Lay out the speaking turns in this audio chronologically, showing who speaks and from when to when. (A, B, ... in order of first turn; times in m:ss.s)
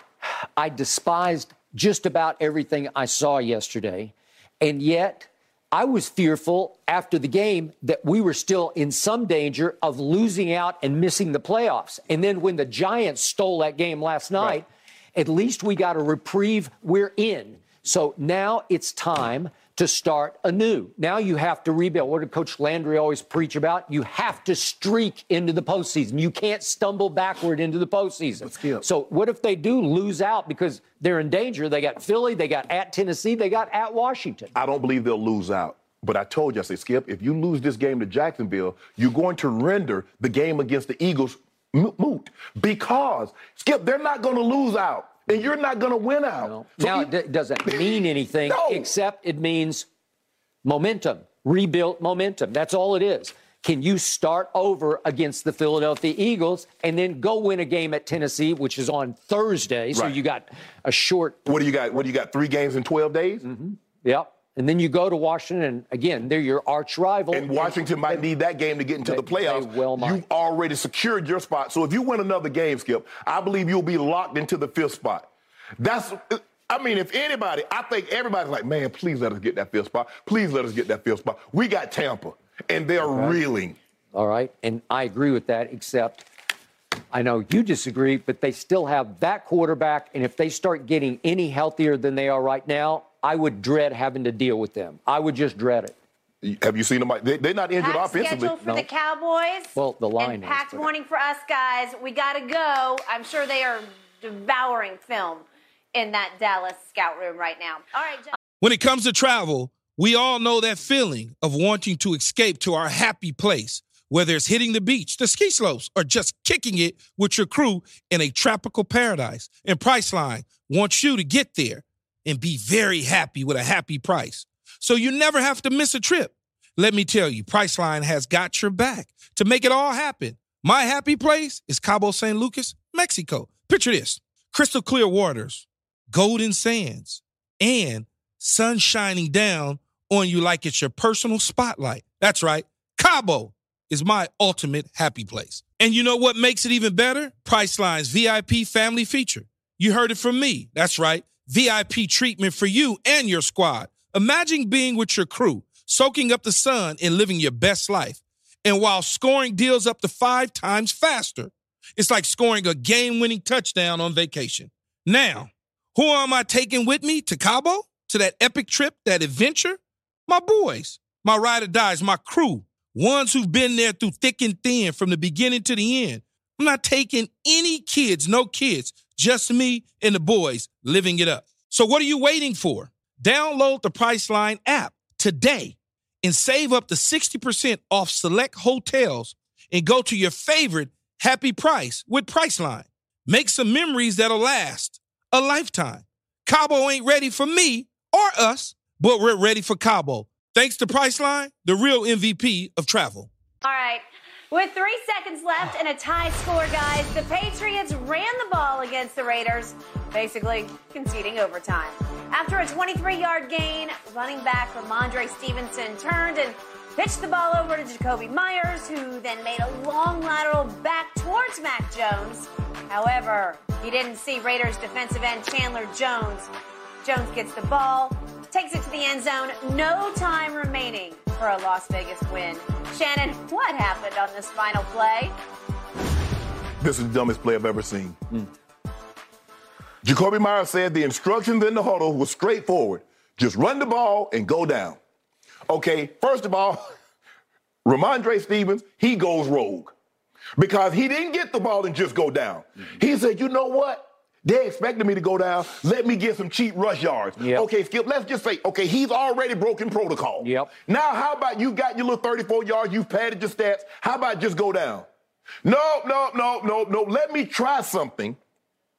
0:00.6-0:14.6 A
0:15.2-0:34.5 A
0:28.5-0:28.8 B
0:34.6-0:47.1 B
0:46.4-0:49.9 A
0:47.7-0:48.9 B
0:50.6-1:01.5 A
1:01.5-1:03.4 B
1:03.4-1:08.2 A
1:07.3-1:23.8 B
1:09.0-1:10.2 A
1:23.0-1:23.4 A
1:24.1-1:26.2 A
1:27.1-1:36.0 A
1:36.4-1:38.6 B
1:37.8-1:48.4 C
1:39.8-1:40.8 A
1:48.6-3:23.3 D
3:23.6-3:46.5 C
3:47.0-3:55.3 C
3:56.8-3:58.2 B
4:00.0-4:05.0 B
4:05.7-4:06.9 B
4:07.8-4:09.9 B
4:10.6-4:25.1 B
4:17.4-4:17.7 A
4:20.4-4:20.7 A
4:25.6-4:28.4 B